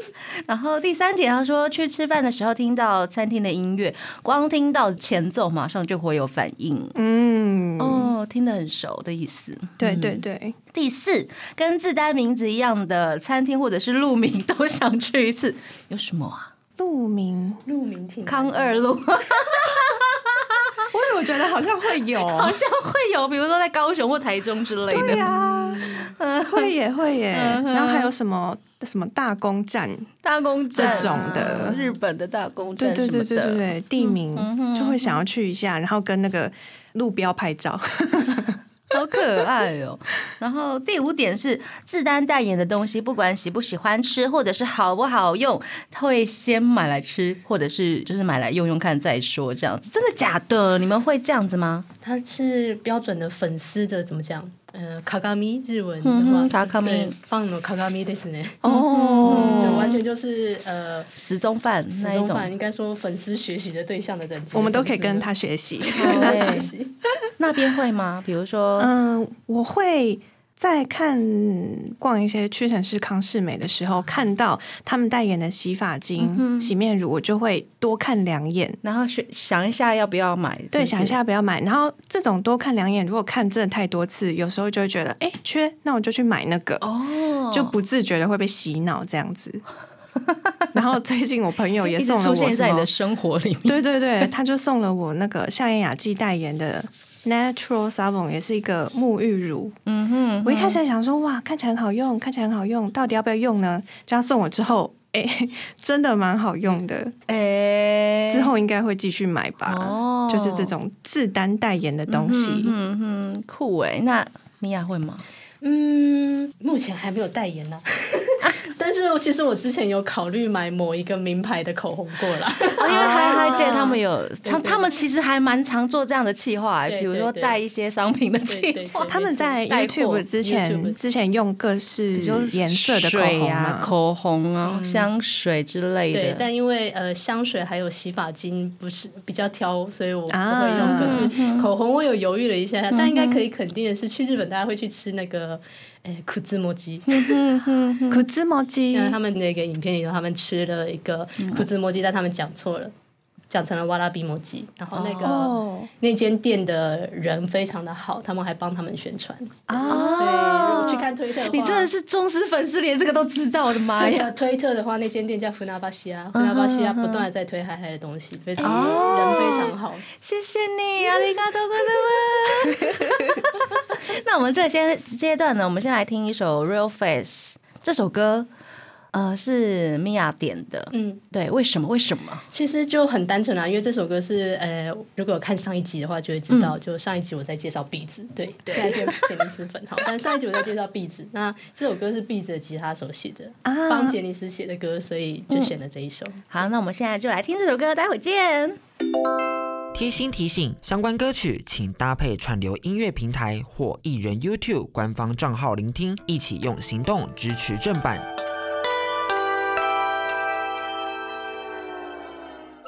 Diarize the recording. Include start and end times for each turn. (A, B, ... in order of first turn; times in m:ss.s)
0:00.4-0:06.9 A
0:06.9-0:08.1 B
0:07.8-0:10.2 A
0:09.8-0:10.6 B
0:10.7-0:16.5 A
0:16.8-0:17.6 B
0:17.6-0:19.0 C
0:18.2-0:20.9 A
0:20.9-0:22.6 B
0:22.2-0:25.3 A
0:24.9-0:30.1 B
0:25.0-0:26.1 C
0:25.8-0:26.7 A
0:27.3-0:28.1 A
0:30.2-0:35.2 A
0:30.7-0:31.8 B
0:30.8-0:31.8 C
0:32.8-0:38.5 B
0:38.9-0:51.9 A
0:52.0-0:58.7 C
0:56.0-0:57.1 A
0:58.6-1:00.0 B
0:58.6-1:00.0 A
0:59.2-1:01.1 C
1:01.2-1:02.5 A
1:01.9-1:05.3 C
1:04.5-1:06.7 B
1:05.9-1:06.9 C
1:05.9-1:06.7 A
1:07.4-1:08.9 A
1:08.8-1:18.8 B
1:16.2-1:16.7 A
1:18.8-1:21.2 A
1:20.7-1:26.9 B
1:26.8-1:27.7 A
1:27.5-1:29.6 B
1:30.2-1:30.7 A
1:30.7-1:32.9 B
1:31.8-1:34.3 A
1:33.6-1:39.7 B
1:39.8-1:40.8 A
1:40.4-1:47.1 B
1:47.3-1:48.5 A
1:48.3-1:52.7 B
1:49.6-1:50.7 A
1:52.1-1:55.2 A
1:55.6-2:04.9 C
2:02.8-2:10.2 A
2:02.9-2:03.9 B
2:06.9-2:07.6 C
2:08.5-2:09.5 C
2:09.1-2:13.9 B
2:10.4-2:11.0 C
2:12.2-2:16.4 A
2:14.6-2:15.1 C
2:16.1-2:27.4 C
2:20.3-2:21.3 B
2:20.8-2:21.7 A
2:22.9-2:23.4 A
2:27.1-2:28.2 A
2:28.1-2:29.2 B
2:28.9-2:32.9 C
2:33.5-2:41.9 C
2:34.9-2:35.5 A
2:35.2-2:35.9 B
2:39.7-2:41.0 B
2:39.8-2:44.3 A
2:44.0-2:50.0 C
2:46.3-2:47.3 A
2:48.6-2:49.7 B
2:48.6-2:58.5 A
2:59.1-3:02.4 A
3:00.9-3:01.2 C
3:02.5-3:16.4 C
3:06.5-3:06.8 A
3:08.6-3:09.0 A
3:13.6-3:14.2 B
3:16.5-3:18.8 A
3:19.9-3:28.2 D